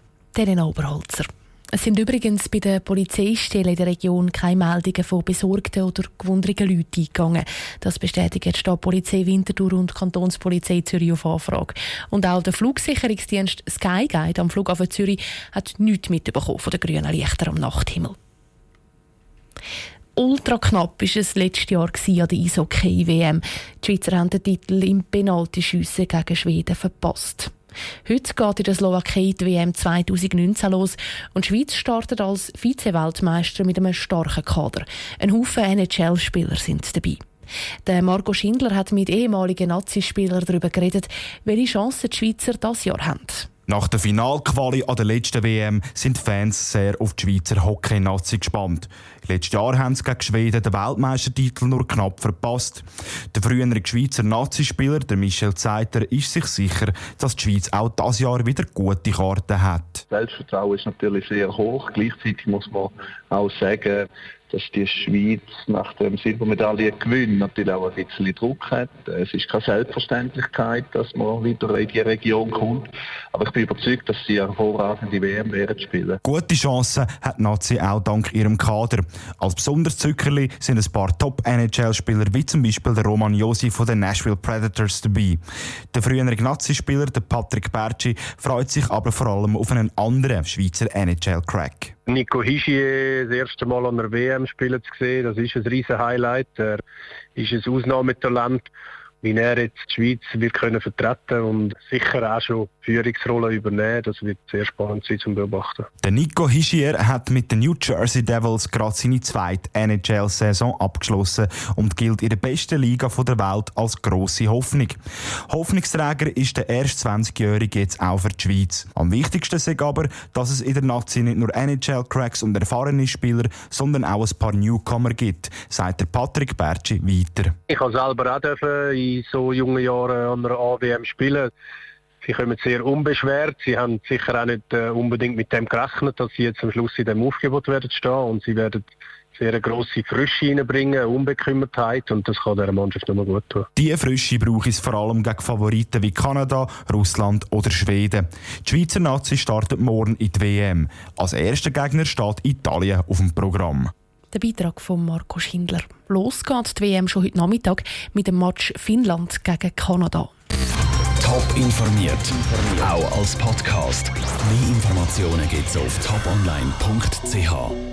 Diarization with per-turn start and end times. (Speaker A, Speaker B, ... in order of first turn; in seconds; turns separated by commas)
Speaker A: 0.3-18.2, Speaker A: 20.2-27.5, Speaker A: 28.1-37.2, Speaker A: 37.9-43.5, Speaker B: 43.7-60.0, Speaker C: 60.1-76.2, Speaker B: 76.2-85.4, Speaker B: 85.9-92.0, Speaker D: 92.1-96.8, Speaker D: 97.4-98.7, Speaker D: 99.2-105.9, Speaker B: 106.0-115.0, Speaker B: 115.5-127.5, Speaker D: 127.7-131.5, Speaker D: 132.2-138.8, Speaker D: 139.4-143.7, Speaker B: 143.8-153.9, Speaker A: 154.3-160.3, Speaker E: 161.2-167.8